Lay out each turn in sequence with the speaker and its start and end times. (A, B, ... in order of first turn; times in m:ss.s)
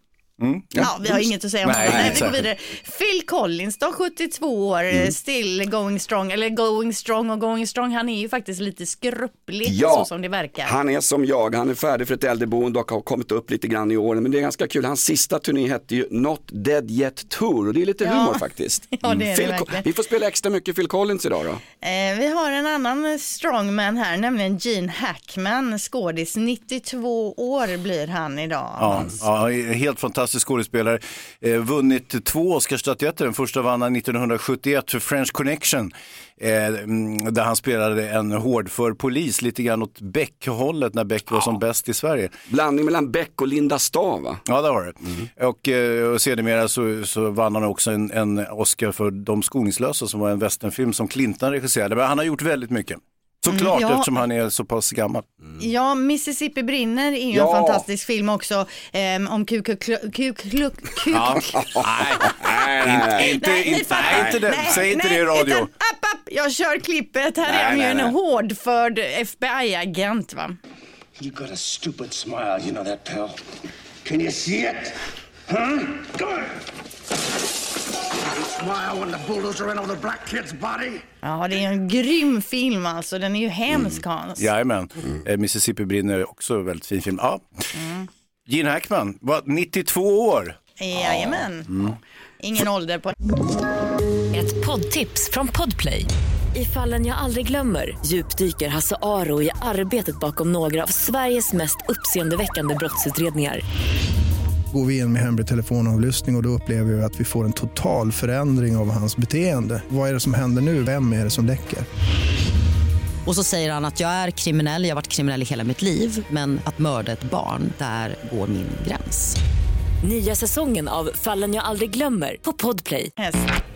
0:00.4-0:02.4 A
0:00.8-0:10.7 B
0:01.8-0:02.3 C
0:09.6-0:10.1 C
0:10.6-0:21.6 C
0:18.0-0:18.4 B
0:18.9-0:19.9 B
0:21.8-0:29.2 B
0:28.8-0:42.3 A
0:42.5-0:44.4 C
0:44.5-0:55.2 A
0:53.5-0:54.1 B
0:55.6-1:01.6 B
0:57.3-0:57.8 C
1:01.1-1:05.7 A
1:01.6-1:03.4 C
1:03.2-1:10.6 B
1:04.1-1:04.8 C
1:07.4-1:08.1 C
1:11.2-1:13.4 D
1:14.0-1:15.0 D
1:15.5-1:16.5 D
1:18.1-1:21.0 D
1:21.2-1:24.5 B
1:24.4-1:27.4 A
1:27.8-1:28.1 B
1:28.5-1:30.6 A
1:30.8-1:31.7 B
1:32.4-1:33.2 B
1:34.3-1:43.6 E
1:44.7-1:51.9 F
1:53.2-1:59.4 G
2:00.0-2:03.1 E
2:03.2-2:03.5 B